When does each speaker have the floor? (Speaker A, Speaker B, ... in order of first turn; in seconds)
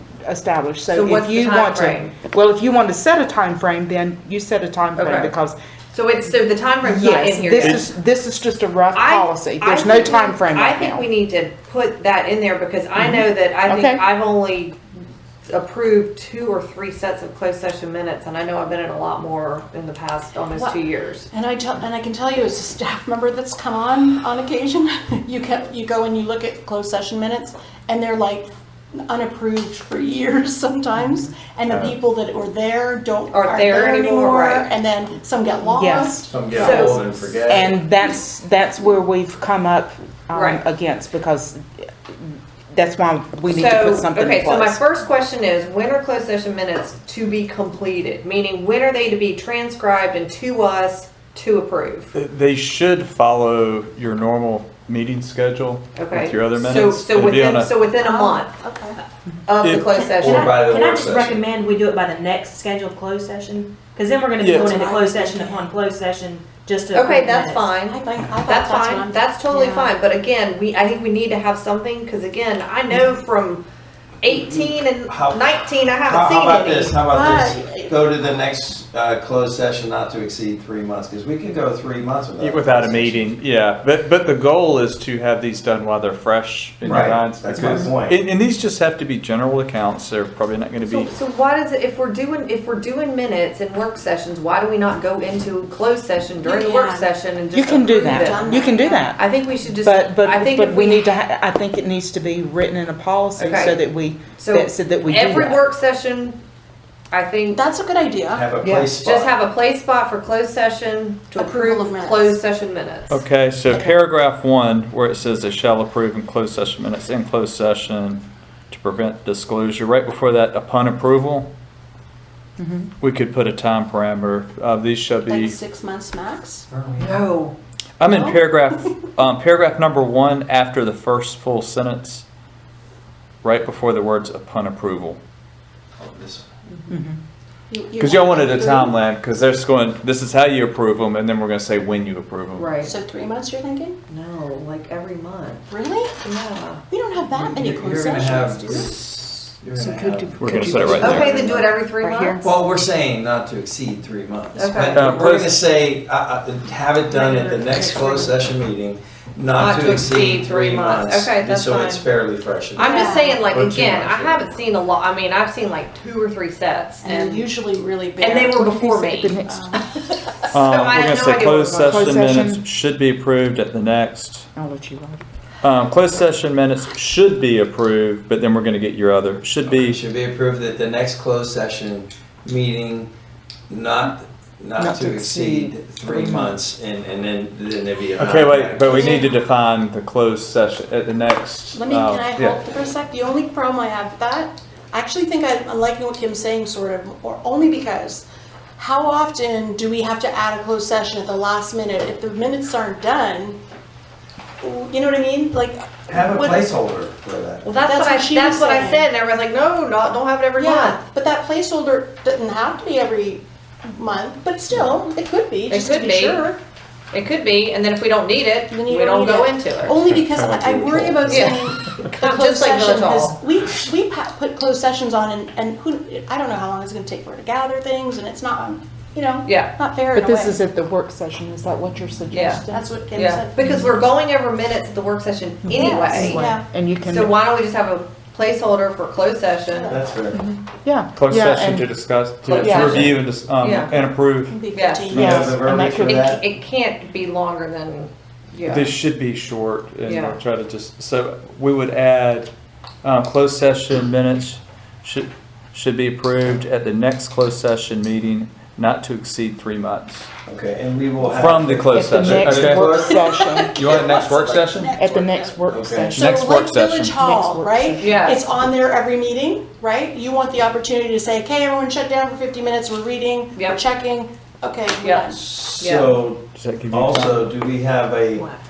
Speaker A: 0.2-5.6, 6.8-11.1, 13.0-14.0, 35.7-36.8, 37.5-44.8, 97.5-99.2, 99.8-105.6, 122.6-122.9, 136.9-137.2, 149.8-152.4, 168.6-169.8, 171.8-172.6, 174.6-175.2, 184.8-186.6, 230.1-232.9, 233.6-233.9, 235.7-237.3, 240.3-241.9, 242.6-243.1, 245.1-246.3, 261.9-263.8, 265.0-266.3, 267.2-268.2
Speaker B: 0.9-2.2, 5.0-5.3, 5.9-7.9, 8.9-14.8, 15.5-21.3, 33.3-34.7, 36.5-37.0, 40.3-40.6, 43.5-52.1, 56.0-58.6, 59.5-60.6, 66.9-73.6, 74.2-77.0, 90.9-101.1, 103.4-103.8, 104.4-106.4, 107.1-107.6, 109.0-113.2, 127.0-127.5, 136.7-137.0, 142.6-142.9, 144.1-145.7, 146.2-146.8, 151.0-152.5, 154.6-155.1, 159.6-162.0, 162.8-167.5, 168.2-169.4, 170.5-172.2, 207.6-211.0, 215.7-216.5, 217.1-220.0, 222.1-223.4, 229.4-229.8, 232.3-240.0, 242.5-244.0, 244.7-248.9, 250.1-250.4, 268.0-268.4, 275.0-276.2
Speaker C: 20.5-28.5, 29.0-36.8, 58.0-59.0, 64.5-65.6, 67.8-69.9, 77.1-77.9, 96.4-97.1, 97.9-99.0, 107.5-108.5, 111.4-112.4, 125.2-126.7, 128.1-128.4, 137.7-139.0, 142.8-144.0, 145.7-146.2, 146.9-148.9, 150.5-151.4, 154.8-155.3, 157.1-158.4, 162.8-163.4, 167.0-168.6, 169.4-169.8, 189.0-189.4, 191.7-203.6, 204.6-206.7, 207.8-209.1, 210.6-216.6, 218.7-230.6, 232.7-233.5, 235.7-236.7, 239.7-240.1, 244.5-245.6, 263.1-275.4
Speaker D: 31.7-31.9, 52.1-57.7, 59.6-60.1, 64.4-64.8, 82.4-91.1, 113.1-121.5, 123.0-125.6, 128.0-132.2, 133.4-135.2, 138.0-142.7, 150.4-151.5, 154.9-155.6, 163.5-164.4, 170.5-174.5, 175.6-180.0, 188.2-192.6, 220.1-221.6, 241.2-245.6, 248.7-252.5, 253.0-260.3, 261.3-263.1, 263.7-265.0, 266.1-267.2, 276.6-277.5
Speaker E: 36.3-37.8, 60.2-61.4, 74.3-83.2, 86.8-88.2, 108.3-109.3, 126.7-127.3, 136.0-136.5, 147.3-151.7, 152.3-163.1, 179.6-183.1, 183.7-189.3, 206.1-207.8, 239.9-240.4, 245.3-246.4, 260.5-263.4, 265.7-266.2, 275.3-278.5
Speaker F: 60.0-67.8